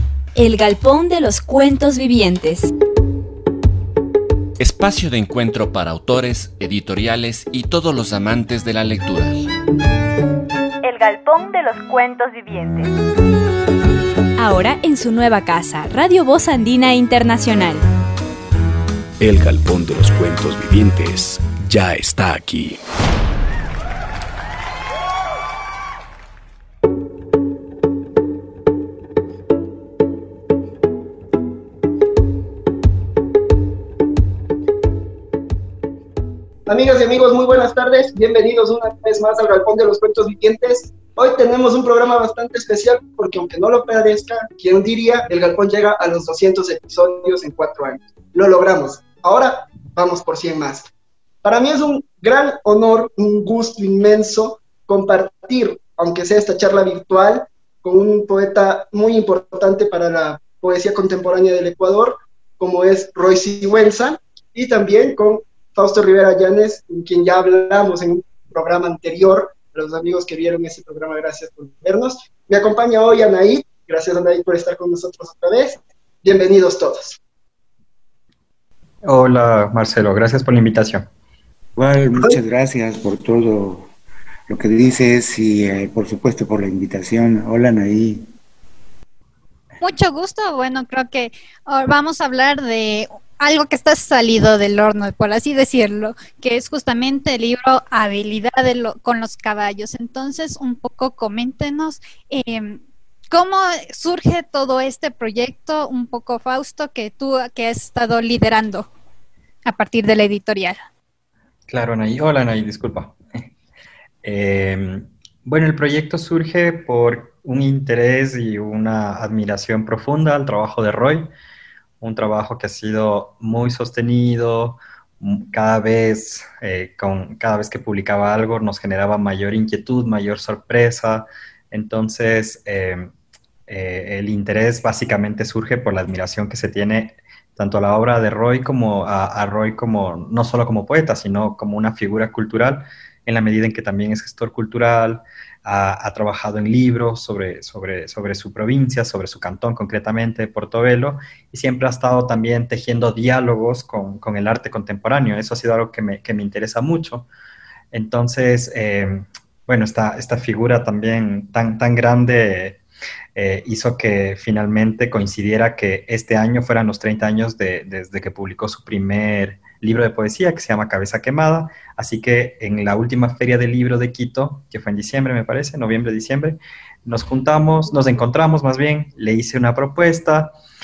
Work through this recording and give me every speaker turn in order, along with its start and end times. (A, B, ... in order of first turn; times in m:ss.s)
0:00.3-0:02.7 A
0:04.6-0:09.4 B
0:10.8-0:12.9 A
0:14.4-0:17.8 A
0:19.2-0:22.8 C
0:36.7-0:50.9 D
0:51.4-1:17.2 D
1:19.0-1:21.1 E
1:21.8-1:23.9 F
1:24.5-1:28.3 F
1:29.8-1:48.9 G
1:49.6-1:50.8 G
1:51.7-1:53.2 E
1:54.2-2:01.3 E
2:02.0-2:13.1 E
2:13.7-2:37.3 E
2:37.9-2:42.8 E
2:43.3-3:00.6 E